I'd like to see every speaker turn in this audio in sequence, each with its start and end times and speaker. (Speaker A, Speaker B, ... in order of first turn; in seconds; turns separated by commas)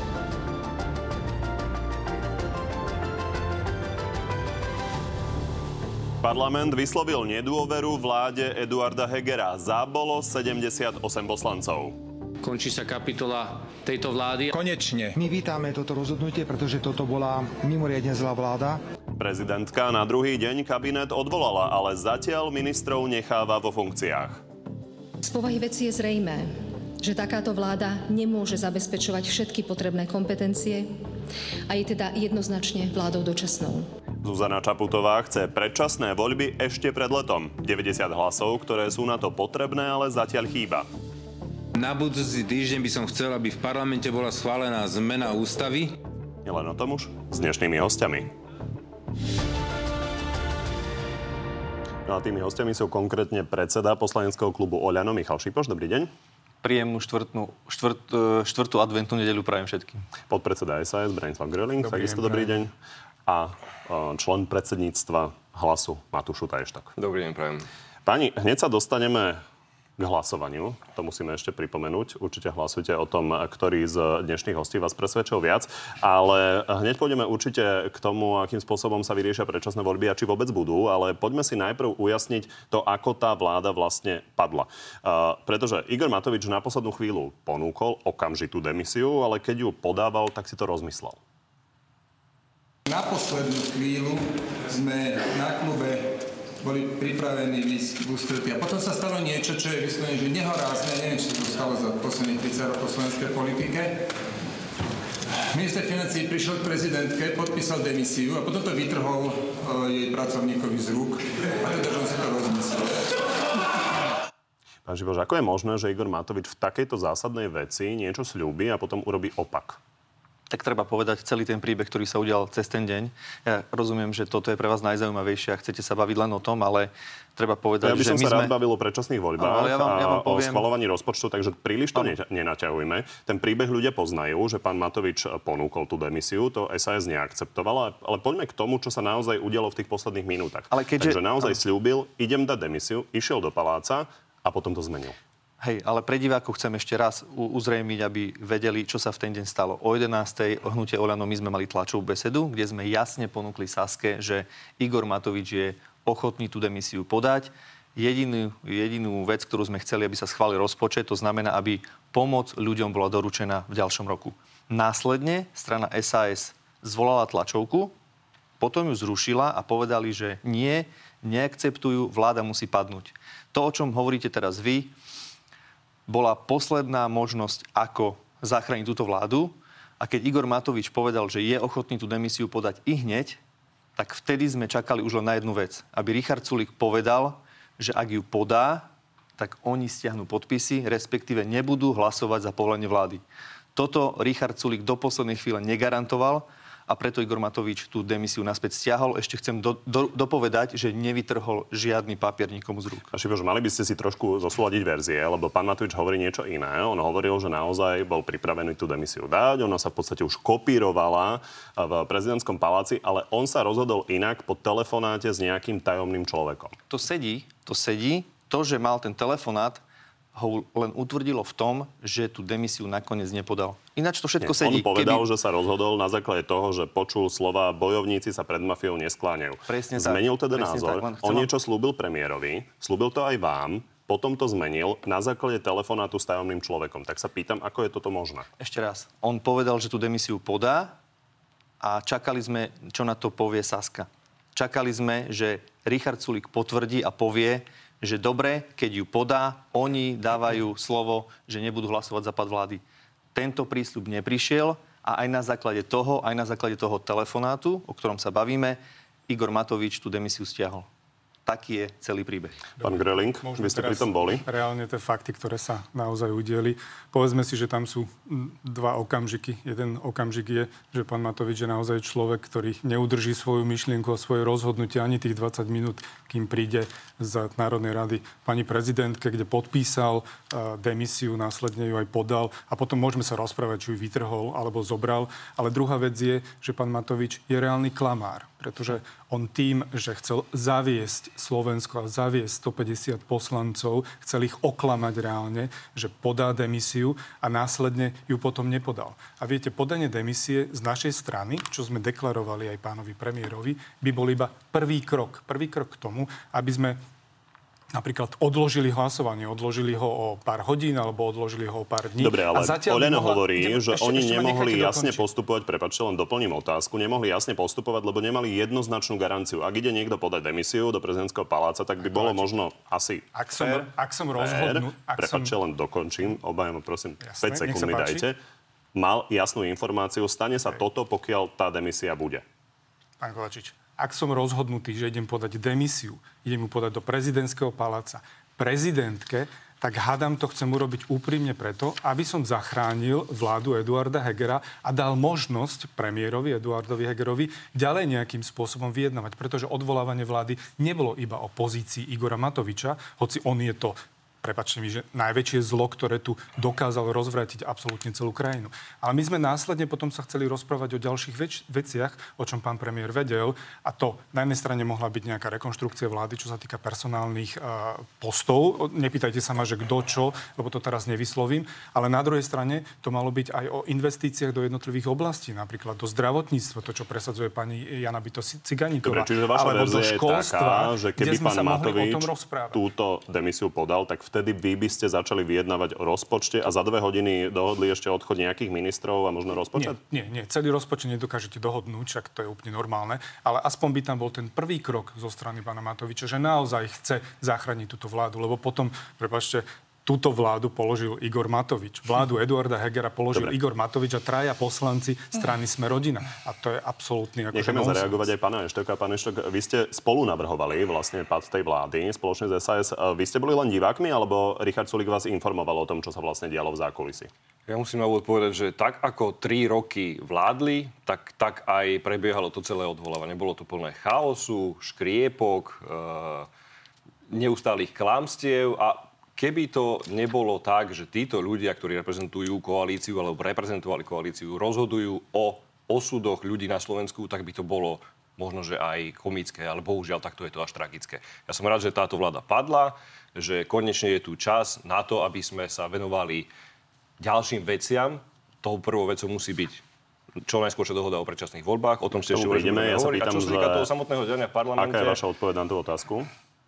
Speaker A: 6.2-12.0, Speaker B: 12.4-14.6, Speaker C: 15.1-18.8, Speaker A: 19.2-24.4, Speaker D: 25.2-30.9, Speaker D: 31.7-33.9, Speaker A: 34.2-40.9, Speaker E: 41.7-46.0, Speaker A: 46.4-48.3, Speaker A: 52.1-56.1, Speaker F: 56.6-60.1, Speaker A: 60.3-62.7, Speaker G: 61.8-62.6, Speaker A: 63.2-66.9, Speaker H: 67.0-67.7, Speaker A: 68.0-69.4, Speaker A: 70.0-91.2, Speaker I: 92.9-104.0, Speaker I: 105.5-113.0, Speaker A: 114.8-119.8, Speaker F: 120.5-128.5, Speaker A: 127.8-145.2, Speaker F: 129.4-130.6, Speaker F: 140.7-141.6, Speaker F: 145.6-167.9, Speaker F: 168.6-174.9, Speaker F: 176.1-183.4, Speaker F: 183.9-193.2, Speaker F: 193.7-203.1, Speaker A: 203.1-216.8, Speaker F: 216.9-219.8, Speaker F: 220.3-225.2, Speaker A: 224.4-238.5, Speaker F: 229.7-231.5, Speaker F: 238.6-240.9, Speaker F: 241.8-252.8, Speaker F: 253.3-260.9, Speaker F: 261.4-262.6, Speaker G: 262.8-307.0, Speaker A: 262.8-264.4, Speaker G: 307.9-315.2, Speaker A: 312.2-323.8, Speaker G: 322.1-322.4, Speaker G: 323.3-325.6, Speaker A: 324.4-328.4, Speaker G: 327.2-328.3, Speaker A: 328.9-332.4, Speaker G: 333.2-382.8, Speaker A: 379.0-390.0, Speaker G: 389.8-408.3, Speaker A: 407.5-417.3, Speaker H: 417.7-426.5, Speaker H: 427.3-446.5, Speaker H: 447.2-449.8, Speaker H: 450.4-455.2, Speaker A: 452.3-453.9, Speaker A: 454.8-456.3